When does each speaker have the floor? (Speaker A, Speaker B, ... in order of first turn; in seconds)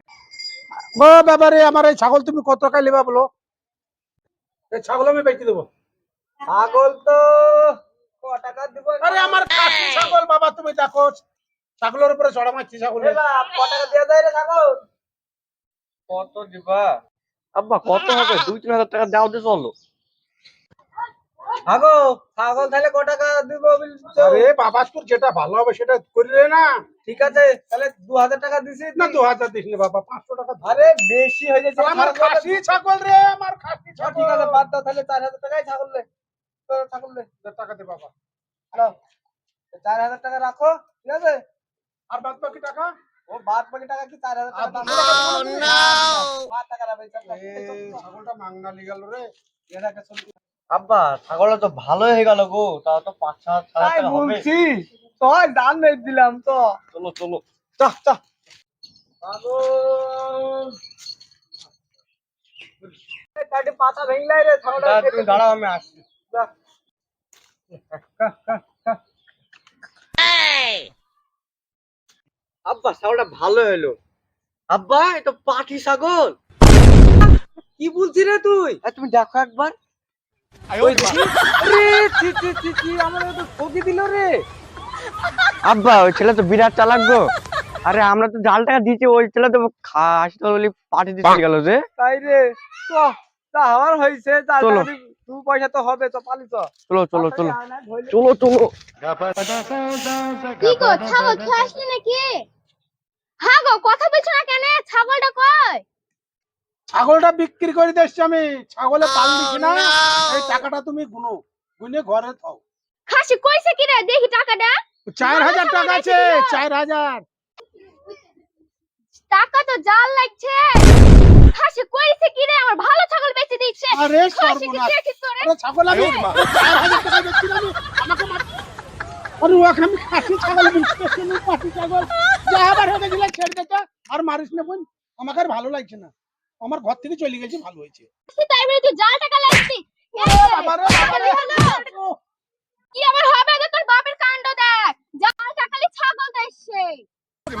Speaker A: 0.9-3.3, 4.7-5.7, 9.0-11.2, 11.8-13.2, 24.2-26.7, 28.9-30.7, 31.8-34.6, 37.4-38.1, 42.1-42.9, 44.5-45.5, 47.3-49.3, 106.9-112.6, 115.1-117.2, 123.9-128.4, 129.4-136.1, 136.6-138.1, 140.2-142.1
Speaker B: 6.5-9.4, 13.0-14.8, 21.6-24.5, 27.1-29.2, 30.6-32.6, 34.0-36.0, 36.7-37.3, 39.7-41.4, 43.3-48.0, 49.7-50.3, 53.8-56.8, 57.8-58.2, 59.2-60.7, 63.4-65.4, 68.2-68.9, 77.8-78.8, 80.8-84.4, 92.0-98.2
Speaker C: 16.1-17.0, 17.5-19.7, 50.7-54.5, 56.9-57.4, 64.8-66.0, 72.7-74.0, 74.7-76.4, 78.8-79.7, 80.9-81.2, 85.6-87.3, 87.8-91.8, 94.6-94.9, 96.9-97.5, 98.1-98.7
Speaker D: 100.6-102.4, 103.4-105.8, 113.1-116.6, 119.3-120.9, 121.5-125.5, 138.3-141.8, 142.9-147.0